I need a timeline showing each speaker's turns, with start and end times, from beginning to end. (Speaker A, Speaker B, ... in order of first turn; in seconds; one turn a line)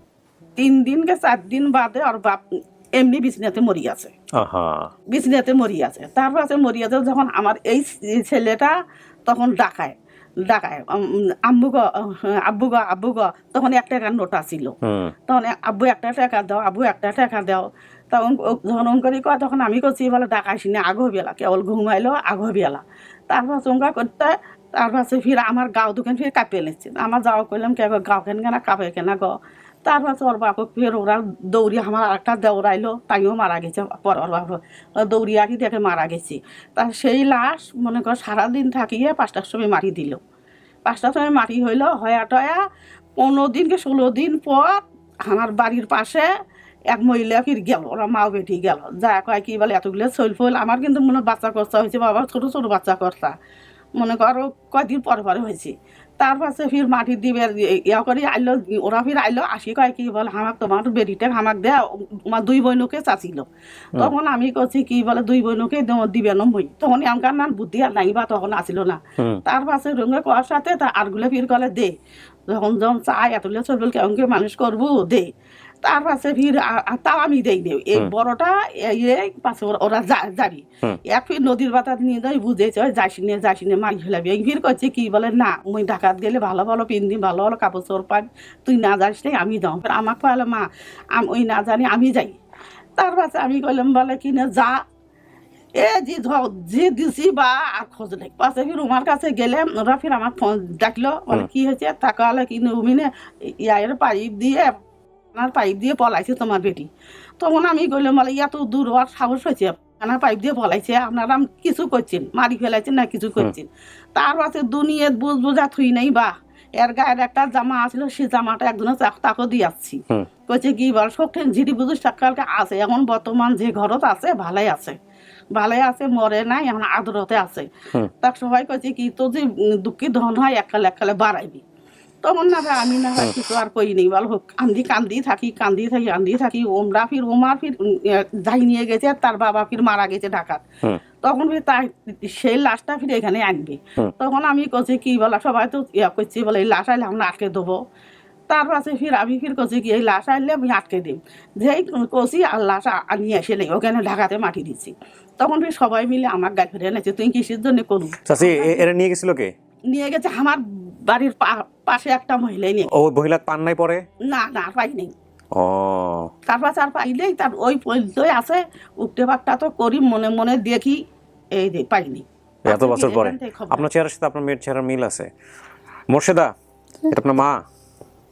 Speaker A: 0.6-2.4
Speaker A: 2.9-4.1
Speaker B: 4.3-4.9
Speaker A: 5.1-8.7
Speaker A: 9.3-9.9
Speaker A: 10.5-14.7
Speaker B: 14.8-15.1
Speaker A: 15.3-40.2
Speaker A: 40.9-42.6
Speaker A: 43.2-46.3
Speaker A: 46.9-53.3
Speaker A: 54.0-71.9
Speaker A: 72.5-75.3
Speaker A: 75.8-92.4
Speaker A: 93.0-94.8
Speaker A: 95.8-104.7
Speaker A: 105.3-125.0
Speaker A: 125.5-127.7
Speaker A: 128.2-131.6
Speaker A: 132.2-140.6
Speaker A: 141.2-147.8
Speaker A: 148.5-158.8
Speaker B: 158.2-159.5
Speaker A: 159.9-162.9
Speaker B: 162.9-164.0
Speaker A: 164.2-165.1
Speaker B: 165.5-166.3
Speaker A: 166.5-171.0
Speaker A: 171.5-173.9
Speaker B: 172.7-175.3
Speaker B: 176.1-176.5
Speaker B: 177.1-177.6